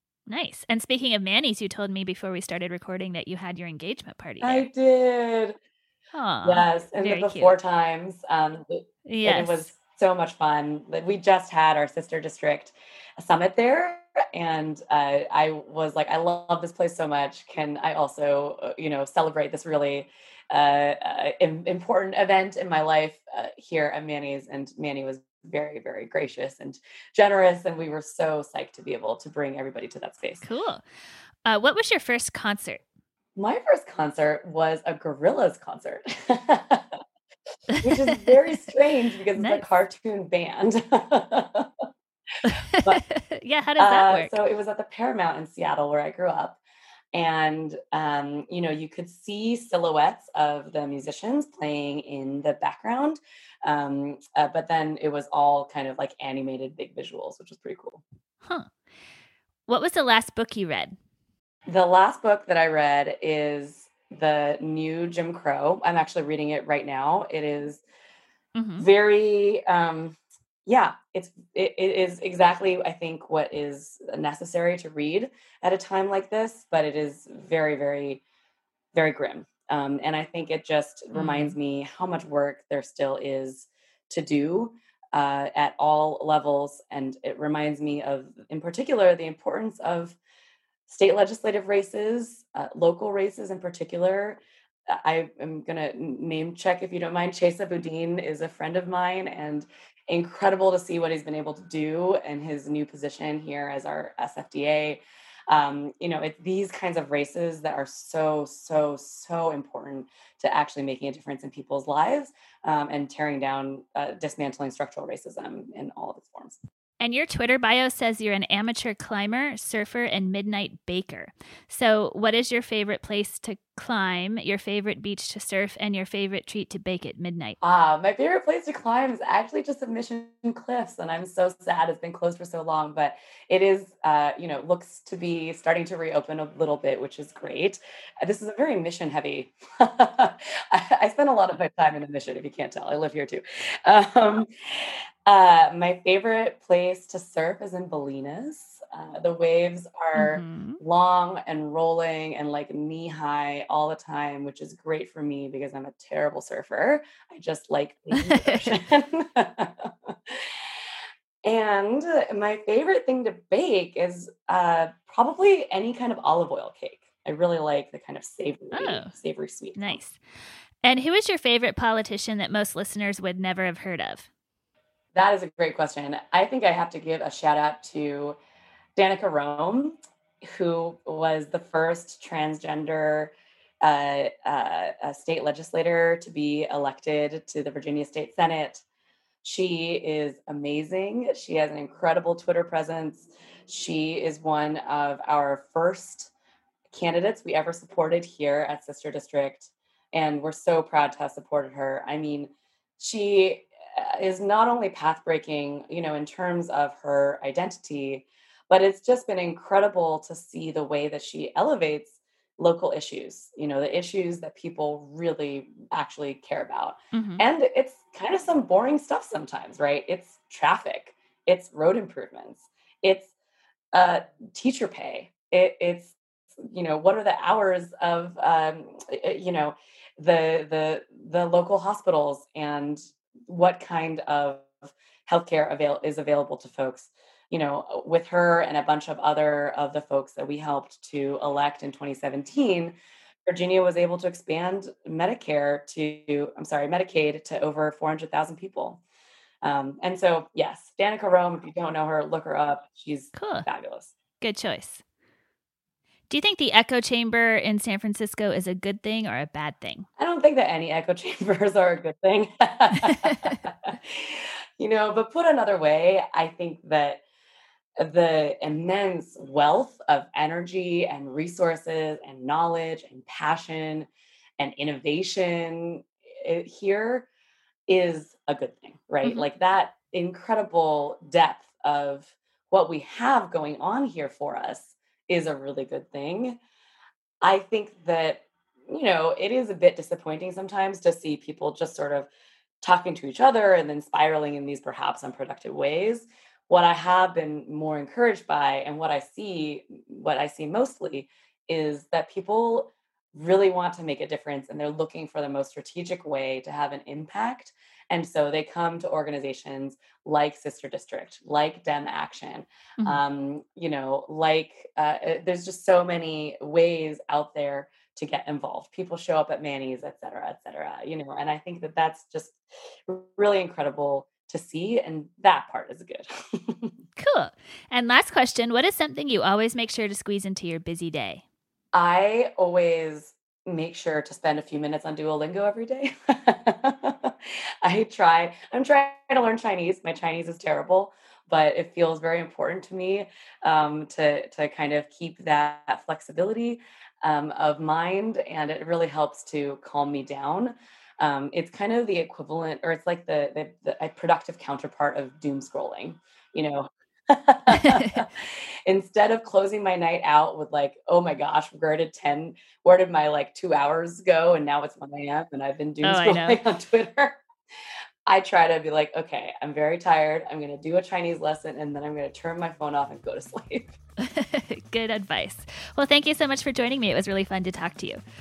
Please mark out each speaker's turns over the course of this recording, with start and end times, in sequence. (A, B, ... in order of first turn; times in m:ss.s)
0:00.3-0:04.7 A
0:04.4-0:05.6 B
0:06.1-0:07.6 A
0:06.4-0:30.4 B
0:09.1-0:09.7 A
0:30.4-0:30.8 A
0:31.4-0:32.8 A
0:33.4-0:37.0 B
0:37.7-0:38.4 A
0:37.8-0:41.8 B
0:39.4-0:39.6 A
0:42.4-0:44.3 A
0:43.8-0:46.6 B
0:47.1-0:58.0 B
0:58.4-0:58.7 A
0:59.7-1:01.0 A
1:01.7-1:07.8 B
1:08.6-1:08.9 A
1:08.8-1:18.2 B
1:18.9-1:30.2 B
1:21.1-1:21.6 A
1:30.9-1:56.6 B
1:57.0-2:07.6 A
2:07.6-2:40.6 B
2:30.2-2:30.8 A
2:38.1-2:38.8 A
2:41.4-2:50.0 B
2:48.7-2:49.1 A
2:49.8-2:50.2 A
2:50.8-2:54.3 A
2:55.1-2:58.4 B
2:59.0-3:03.3 B
3:03.8-3:08.8 B
3:09.4-3:16.3 B
3:16.9-3:43.3 B
3:37.1-3:37.4 A
3:43.9-4:03.0 B
4:03.5-4:09.0 B
4:09.6-4:14.2 B
4:13.4-4:13.7 A
4:14.4-4:15.0 A
4:16.3-4:20.1 A
4:20.2-4:27.2 B
4:23.0-4:23.6 A
4:28.0-4:37.3 B
4:37.9-4:46.6 B
4:47.4-4:52.3 B
4:52.8-5:27.0 B
5:27.2-5:31.4 A
5:31.9-6:07.4 B
5:57.7-5:58.2 A
6:06.0-6:06.6 A
6:08.3-6:14.0 B
6:14.2-6:18.2 A